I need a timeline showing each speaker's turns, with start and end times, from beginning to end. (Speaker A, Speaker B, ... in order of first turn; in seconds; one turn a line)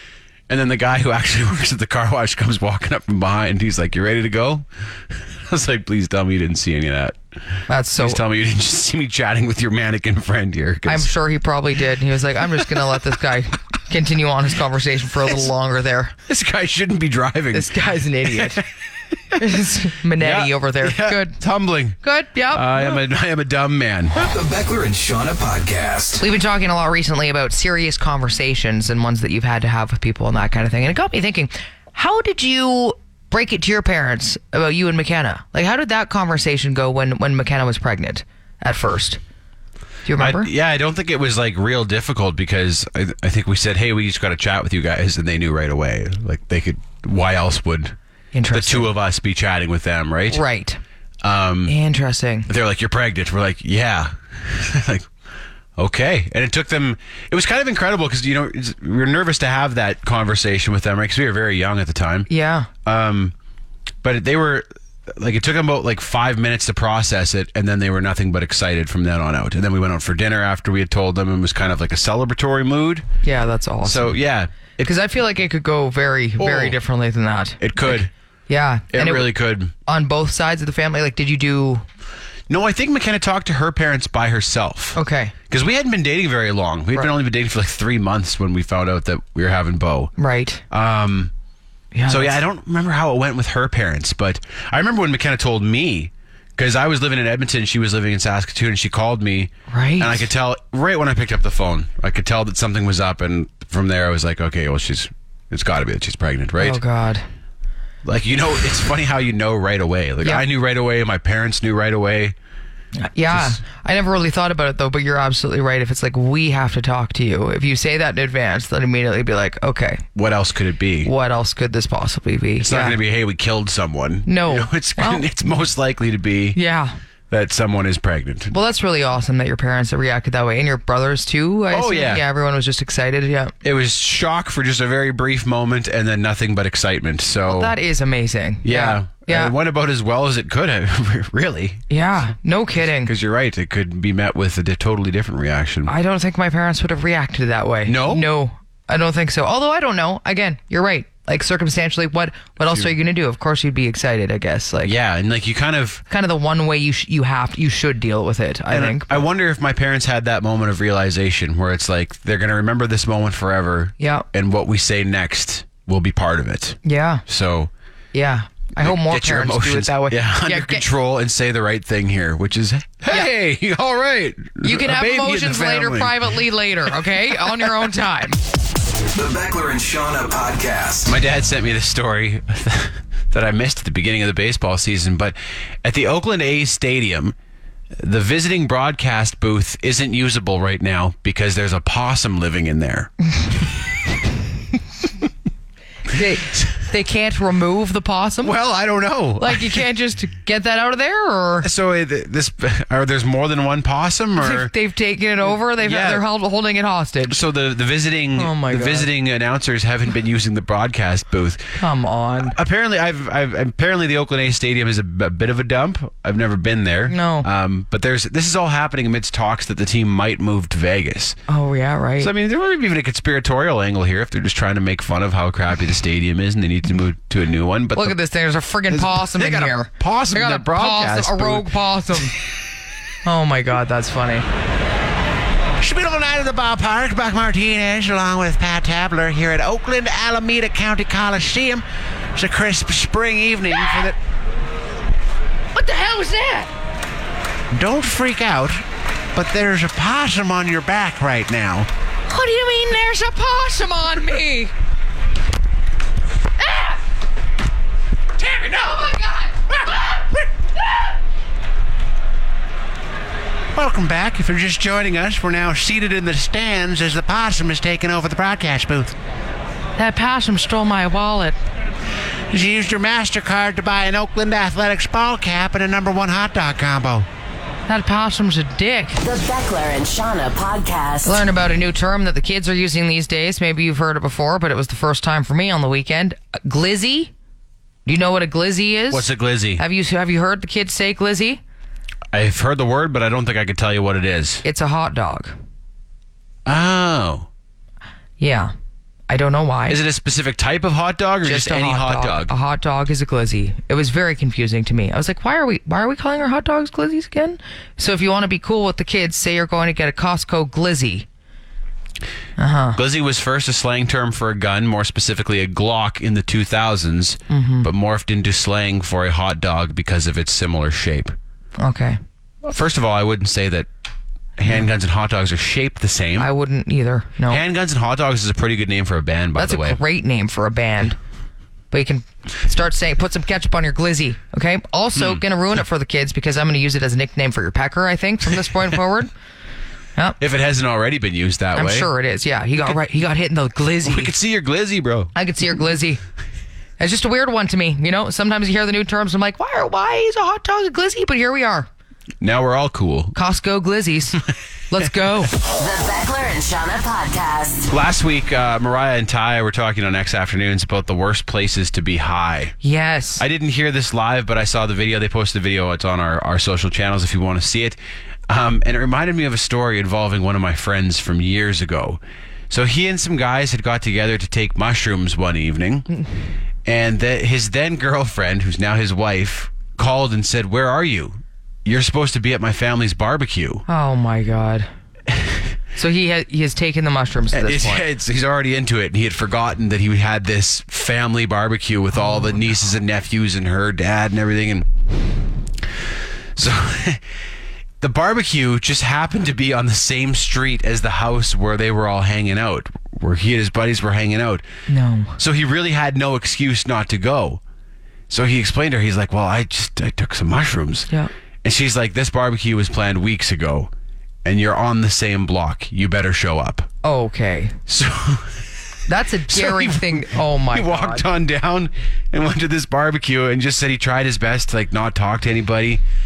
Speaker A: 0.5-7.2
Speaker B: 7.7-8.2
Speaker A: 8.0-11.1
Speaker B: 10.9-16.1
Speaker A: 16.3-18.6
Speaker B: 17.5-18.6
Speaker B: 19.4-21.4
Speaker A: 20.2-22.0
Speaker B: 22.0-22.8
Speaker A: 22.5-24.2
Speaker C: 24.2-26.2
Speaker B: 26.2-39.2
Speaker B: 40.0-40.5
Speaker A: 40.2-48.0
Speaker B: 48.3-48.9
Speaker A: 48.5-50.4
Speaker B: 50.3-50.8
Speaker A: 51.2-51.7
Speaker B: 51.7-52.5
Speaker A: 52.5-55.1
Speaker A: 55.8-62.3
Speaker B: 62.3-62.7
Speaker A: 62.8-63.3
Speaker A: 64.0-73.0
Speaker B: 73.2-74.2
Speaker A: 73.8-74.9
Speaker B: 74.8-79.3
Speaker A: 76.4-76.8
Speaker A: 77.6-78.1
Speaker A: 78.9-79.7
Speaker B: 79.8-81.8
Speaker A: 82.5-85.0
Speaker B: 84.9-85.3
Speaker A: 85.5-90.1
Speaker B: 90.2-90.6
Speaker A: 90.7-91.3
Speaker B: 91.9-92.4
Speaker A: 92.1-106.8
Speaker B: 99.7-100.3
Speaker B: 106.6-107.2
Speaker A: 108.0-112.3
Speaker B: 113.0-120.0
Speaker A: 113.3-113.6
Speaker A: 120.1-121.1
Speaker B: 121.0-123.0
Speaker A: 122.6-126.6
Speaker B: 124.2-125.3
Speaker B: 126.5-126.9
Speaker A: 127.3-128.5
Speaker B: 128.5-133.5
Speaker A: 131.7-132.2
Speaker A: 133.6-137.8
Speaker B: 137.4-139.5
Speaker A: 138.6-141.8
Speaker B: 141.9-143.1
Speaker A: 142.8-145.9
Speaker B: 145.8-154.9
Speaker A: 147.8-148.3
Speaker A: 154.8-156.0
Speaker B: 156.1-159.2
Speaker A: 158.7-167.7
Speaker B: 164.0-164.2
Speaker B: 166.8-167.2
Speaker B: 168.1-170.8
Speaker A: 168.8-176.4
Speaker B: 174.6-178.4
Speaker A: 176.9-177.7
Speaker C: 179.1-181.2
Speaker A: 181.1-187.3
Speaker A: 188.0-193.1
Speaker B: 196.1-198.5
Speaker A: 198.4-199.8
Speaker B: 199.4-201.7
Speaker A: 201.6-204.7
Speaker B: 204.4-207.4
Speaker A: 205.4-206.2
Speaker A: 207.3-211.8
Speaker B: 208.3-209.1
Speaker B: 211.8-212.5
Speaker A: 212.5-221.4
Speaker B: 217.1-217.5
Speaker B: 221.5-222.3
Speaker A: 222.2-228.2
Speaker B: 227.9-232.3
Speaker A: 228.9-232.2
Speaker B: 233.2-234.4
Speaker A: 235.8-244.2
Speaker B: 245.7-246.7
Speaker A: 247.7-251.9
Speaker B: 252.3-254.7
Speaker B: 256.6-257.0
Speaker A: 258.4-260.4
Speaker B: 259.0-259.5
Speaker A: 263.7-269.1
Speaker B: 270.0-271.6
Speaker A: 272.5-277.3
Speaker B: 277.9-279.2
Speaker D: 279.2-281.4
Speaker B: 281.2-287.3
Speaker B: 288.1-291.6
Speaker A: 289.1-289.8
Speaker A: 292.3-294.6
Speaker B: 294.6-295.5
Speaker A: 296.6-297.5
Speaker B: 298.4-298.7
Speaker B: 299.3-300.0
Speaker A: 299.9-302.5
Speaker B: 301.4-311.2
Speaker B: 312.6-313.0
Speaker A: 312.9-321.3
Speaker B: 317.5-317.9
Speaker B: 321.8-322.2
Speaker A: 322.6-323.9
Speaker A: 324.6-326.5
Speaker B: 326.4-327.6
Speaker A: 327.5-330.0
Speaker B: 329.6-331.2
Speaker B: 331.9-339.3
Speaker A: 335.1-335.4
Speaker A: 340.4-342.1
Speaker B: 341.7-344.3
Speaker A: 344.0-345.3
Speaker B: 345.3-346.2
Speaker B: 347.0-351.9
Speaker A: 352.4-353.3
Speaker B: 353.3-355.5
Speaker D: 355.7-357.9
Speaker A: 357.9-362.7
Speaker B: 362.8-363.4
Speaker A: 363.4-368.0
Speaker A: 368.5-376.1
Speaker A: 376.8-383.8
Speaker B: 383.9-384.9
Speaker A: 385.3-385.6
Speaker B: 385.9-388.1
Speaker A: 387.5-394.9
Speaker B: 392.1-392.6
Speaker A: 396.6-397.2
Speaker A: 398.0-404.6
Speaker B: 404.9-405.4
Speaker A: 405.4-407.6
Speaker A: 408.3-411.1
Speaker A: 411.6-413.9
Speaker A: 414.4-416.9
Speaker B: 417.0-417.8
Speaker A: 417.9-418.6
Speaker B: 419.1-421.3
Speaker A: 419.5-426.0